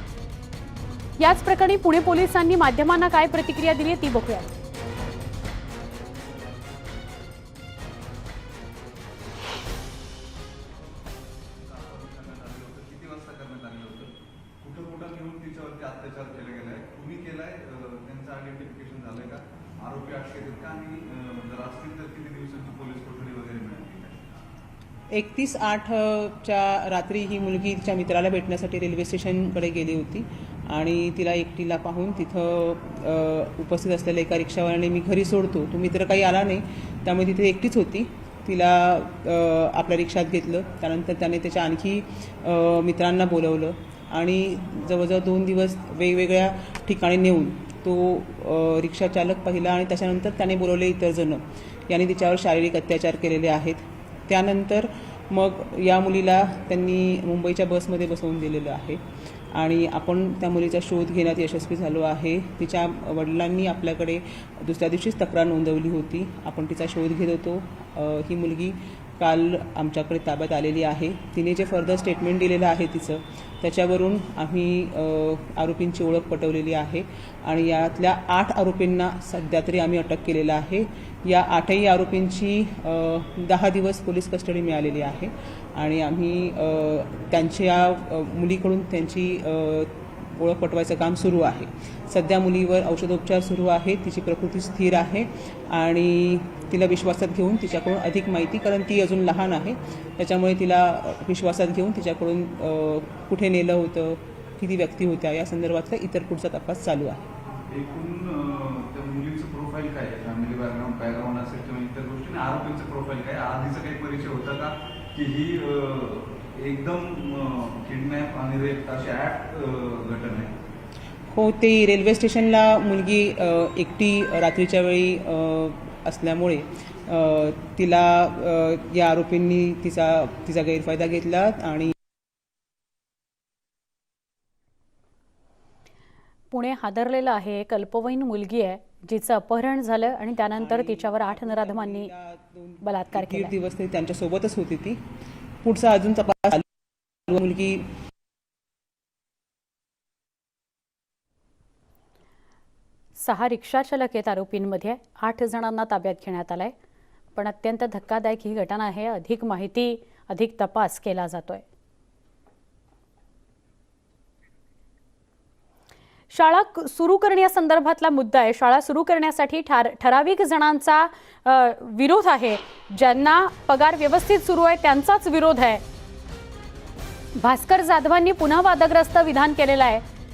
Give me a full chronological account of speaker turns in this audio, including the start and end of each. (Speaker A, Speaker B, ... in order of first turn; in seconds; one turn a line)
Speaker A: 1.2-4.5
Speaker B: 12.0-14.0
Speaker B: 14.6-19.4
Speaker B: 19.9-24.0
Speaker C: 25.1-59.0
Speaker C: 59.5-107.3
Speaker B: 107.9-111.8
Speaker B: 115.4-116.0
Speaker B: 118.6-119.4
Speaker C: 121.3-131.9
Speaker A: 136.5-142.1
Speaker C: 140.5-145.0
Speaker A: 142.8-143.5
Speaker C: 145.6-146.6
Speaker C: 147.3-147.9
Speaker A: 153.2-156.7
Speaker A: 157.4-161.6
Speaker A: 166.3-175.8
Speaker A: 177.4-180.0